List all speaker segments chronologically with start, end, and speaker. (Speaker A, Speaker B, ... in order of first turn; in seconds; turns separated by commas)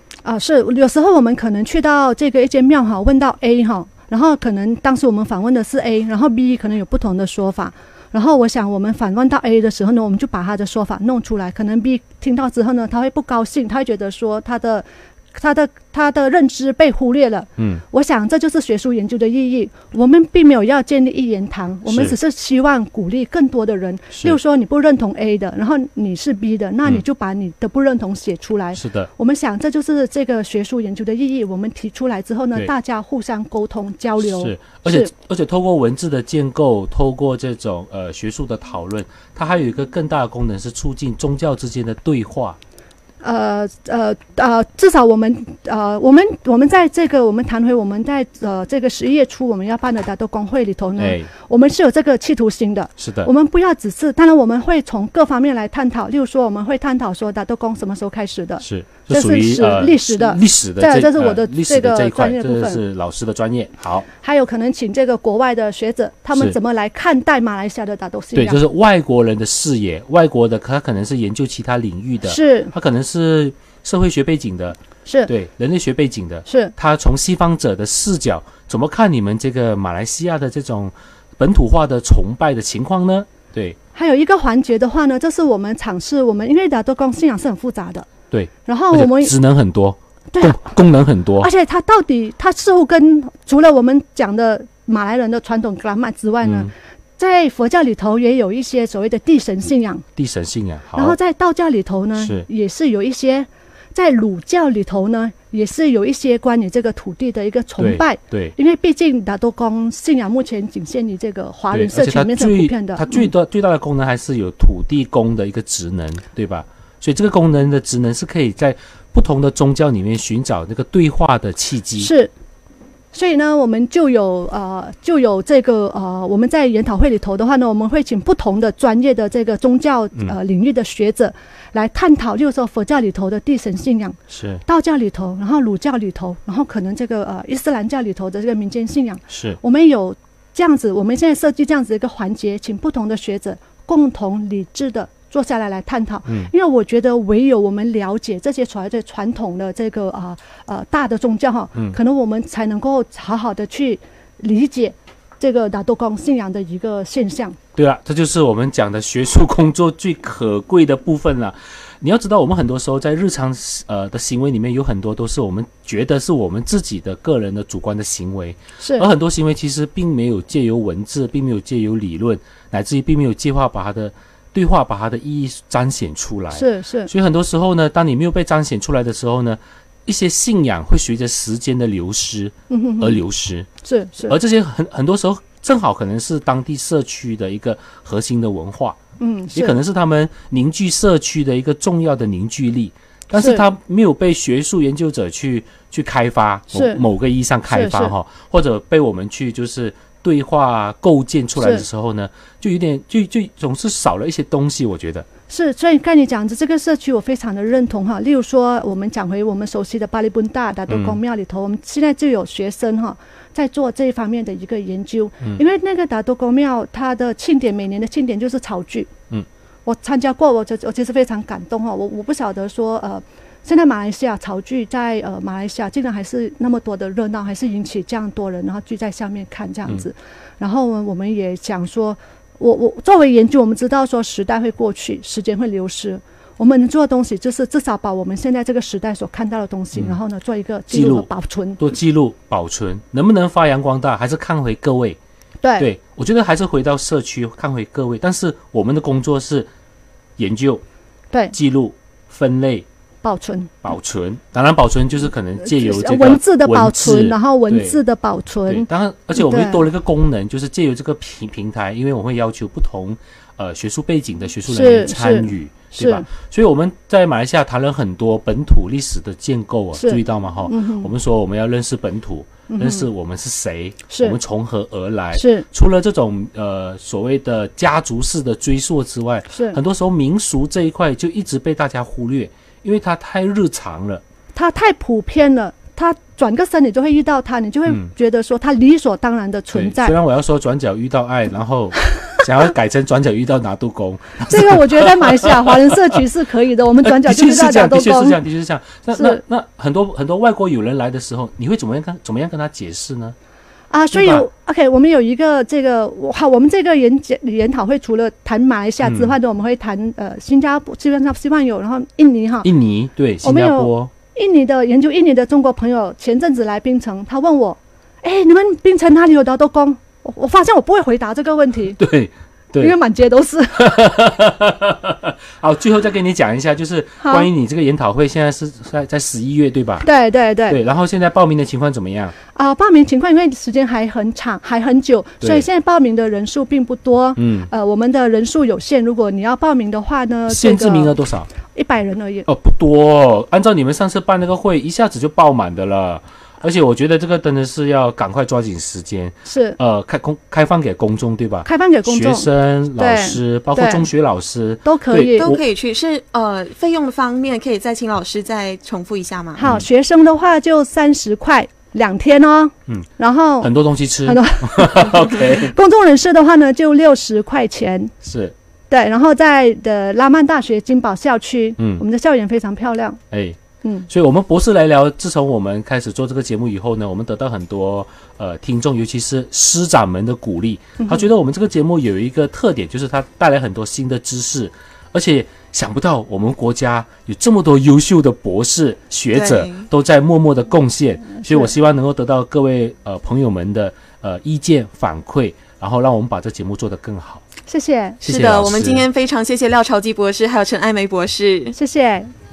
Speaker A: 0.2-35.1, Speaker B: 17.6-17.8, Speaker B: 21.9-22.1, Speaker B: 24.1-24.4, Speaker B: 28.7-29.1, Speaker B: 34.2-42.6, Speaker A: 43.2-62.8, Speaker B: 51.0-51.3, Speaker B: 53.0-53.3, Speaker B: 58.6-64.1, Speaker A: 64.2-68.6, Speaker B: 68.3-83.8, Speaker A: 72.2-72.7, Speaker A: 75.0-75.3, Speaker A: 76.5-76.7, Speaker A: 83.9-88.1, Speaker B: 88.3-91.5, Speaker A: 88.6-89.3, Speaker A: 90.3-90.8, Speaker A: 91.4-100.0, Speaker B: 96.4-96.7, Speaker B: 100.2-101.2, Speaker A: 100.9-113.3, Speaker B: 102.2-102.5, Speaker B: 107.8-108.5, Speaker B: 111.7-122.1, Speaker A: 122.0-122.3, Speaker A: 123.1-157.6, Speaker B: 134.3-134.6, Speaker B: 139.3-139.6, Speaker B: 157.8-183.7, Speaker A: 168.8-169.1, Speaker A: 176.5-177.1, Speaker A: 182.7-183.2, Speaker A: 183.8-184.3, Speaker B: 184.3-189.0, Speaker A: 189.2-189.8, Speaker B: 189.5-205.3, Speaker A: 193.3-193.6, Speaker A: 196.7-197.0, Speaker A: 197.7-198.1, Speaker A: 201.6-201.8, Speaker A: 205.5-219.1, Speaker B: 210.9-211.2, Speaker A: 219.8-241.8, Speaker B: 240.9-245.2, Speaker A: 245.6-245.9, Speaker B: 245.8-249.7, Speaker B: 250.4-250.8, Speaker B: 251.5-252.8, Speaker A: 253.2-253.8, Speaker B: 253.8-258.0, Speaker A: 255.6-259.8, Speaker B: 258.6-284.2, Speaker A: 264.7-266.2, Speaker A: 269.9-271.1, Speaker A: 272.7-273.1, Speaker A: 274.1-274.4, Speaker A: 275.3-275.6, Speaker A: 279.5-279.8, Speaker A: 284.5-290.1, Speaker B: 289.7-296.2, Speaker A: 294.5-298.4, Speaker B: 297.0-303.4, Speaker A: 299.1-299.4, Speaker A: 303.9-312.7, Speaker B: 304.1-304.5, Speaker B: 309.0-309.4, Speaker B: 312.6-314.1, Speaker A: 313.4-322.0, Speaker B: 322.0-323.0, Speaker A: 322.8-324.1, Speaker B: 323.7-330.1, Speaker A: 327.2-327.5, Speaker A: 330.0-330.8, Speaker B: 330.7-332.3, Speaker A: 332.5-341.1, Speaker B: 335.4-335.7, Speaker B: 337.4-337.7, Speaker B: 340.5-341.5, Speaker A: 341.6-342.5, Speaker B: 342.5-355.6, Speaker A: 349.4-349.8, Speaker A: 351.6-354.1, Speaker A: 354.8-355.6, Speaker C: 355.4-359.6, Speaker A: 359.6-363.7, Speaker B: 363.6-365.7, Speaker A: 364.2-368.1, Speaker B: 368.2-368.5, Speaker A: 368.9-373.2, Speaker B: 371.8-372.0, Speaker B: 373.3-397.4, Speaker A: 373.8-374.1, Speaker A: 381.0-381.2, Speaker C: 389.3-389.8, Speaker A: 397.7-398.2, Speaker B: 398.2-399.1, Speaker C: 398.2-401.7, Speaker A: 401.7-402.3